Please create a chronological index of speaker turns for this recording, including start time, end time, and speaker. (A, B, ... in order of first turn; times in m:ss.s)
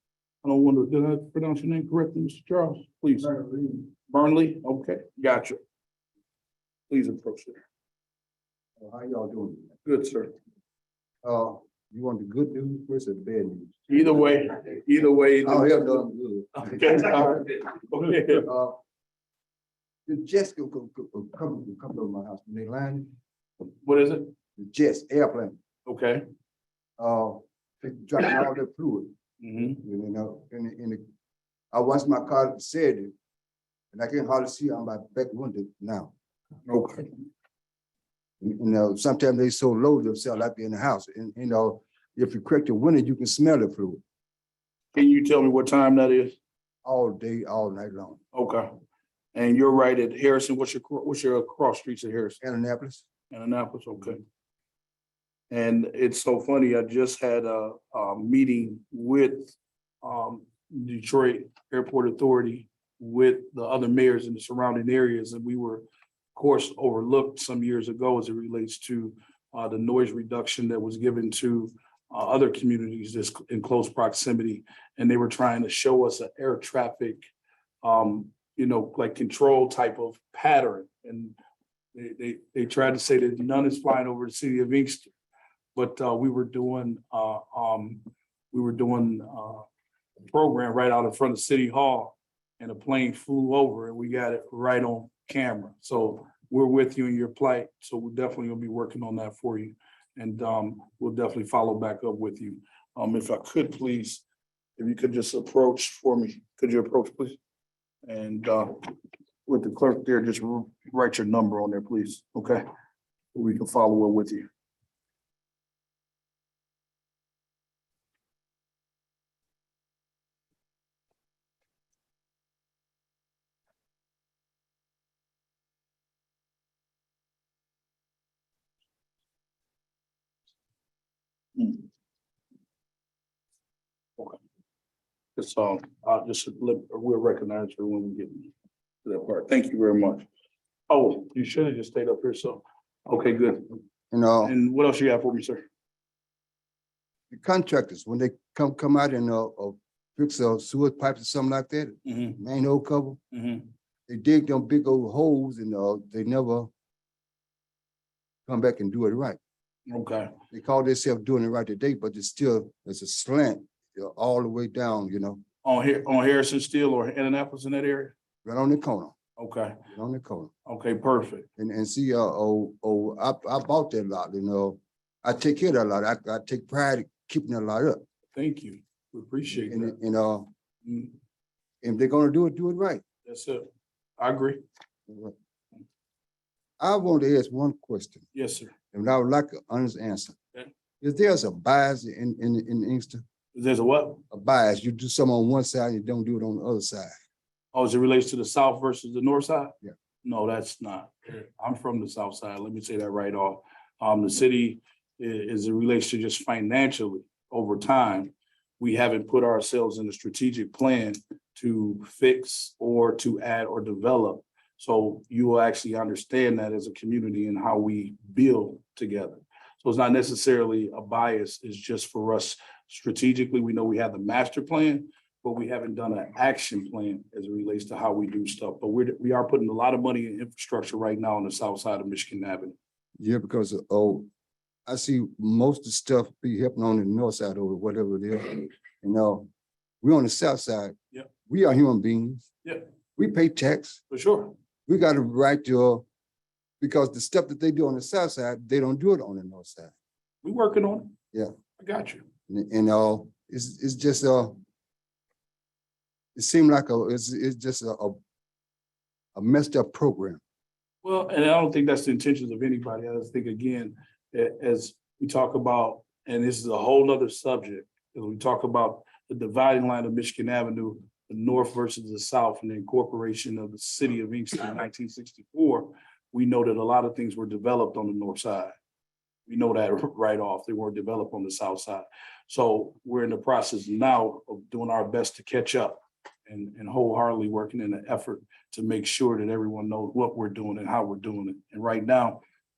0:00.4-0:03.3 A
0:03.2-0:03.9 B
0:04.1-0:05.6 A
0:06.9-0:07.6 A
0:08.8-0:09.7 B
0:09.8-0:10.3 A
0:11.2-0:14.6 B
0:13.9-0:15.8 A
0:15.4-0:17.4 B
0:16.6-0:18.5 A
0:18.4-0:18.8 B
0:20.1-0:23.1 B
0:23.8-0:24.3 A
0:24.6-0:25.6 B
0:25.8-0:26.2 A
0:27.0-0:29.1 B
0:29.4-0:29.8 A
0:29.8-0:31.0 B
0:31.7-0:33.1 B
0:33.9-0:36.1 B
0:36.7-0:37.1 A
0:38.4-0:44.0 B
0:44.9-0:46.3 A
0:46.8-0:48.2 B
0:48.3-0:48.7 A
0:49.3-0:52.4 A
0:52.4-0:53.0 B
0:53.3-0:54.2 A
0:55.5-1:17.2 A
1:17.8-1:21.4 A
1:21.9-1:25.1 A
1:25.7-1:29.7 A
1:30.2-1:44.2 A
1:44.8-1:47.4 A
1:48.0-1:48.9 A
1:49.4-1:52.6 A
1:53.3-1:54.5 A
2:11.6-2:11.8 A
2:15.4-2:18.5 A
2:19.0-2:20.3 A
2:20.9-2:23.8 A
2:24.1-2:24.5 B
2:24.4-2:25.6 A
2:27.3-2:33.2 B
2:32.0-2:32.4 A
2:33.3-2:33.7 A
2:34.1-2:36.7 B
2:38.5-2:39.4 B
2:39.9-2:40.3 A
2:40.5-2:45.4 B
2:45.6-2:48.1 A
2:48.4-2:49.1 B
2:49.4-2:49.8 A
2:49.9-2:50.5 B
2:50.6-2:51.5 A
2:51.6-2:58.0 B
2:58.3-3:00.0 A
2:59.5-3:00.5 B
3:00.8-3:01.1 A
3:01.8-3:03.0 B
3:03.2-3:03.6 A
3:04.2-3:04.6 A
3:05.1-3:05.3 B
3:06.8-3:08.2 B
3:08.3-3:08.7 A
3:08.9-3:10.4 B
3:11.0-3:13.2 B
3:13.5-3:14.2 A
3:14.3-3:17.1 B
3:17.7-3:52.7 A
3:53.2-3:54.3 B
3:54.9-3:59.5 B
4:00.0-4:00.9 B
4:01.5-4:02.4 B
4:03.2-4:04.0 B
4:04.1-4:04.5 A
4:04.9-4:06.0 B
4:06.8-4:09.9 B
4:10.4-4:11.1 A
4:11.8-4:12.2 A
4:12.5-4:14.6 B
4:16.4-4:18.2 B
4:19.3-4:20.4 B
4:21.0-4:38.7 A
4:39.5-4:52.4 A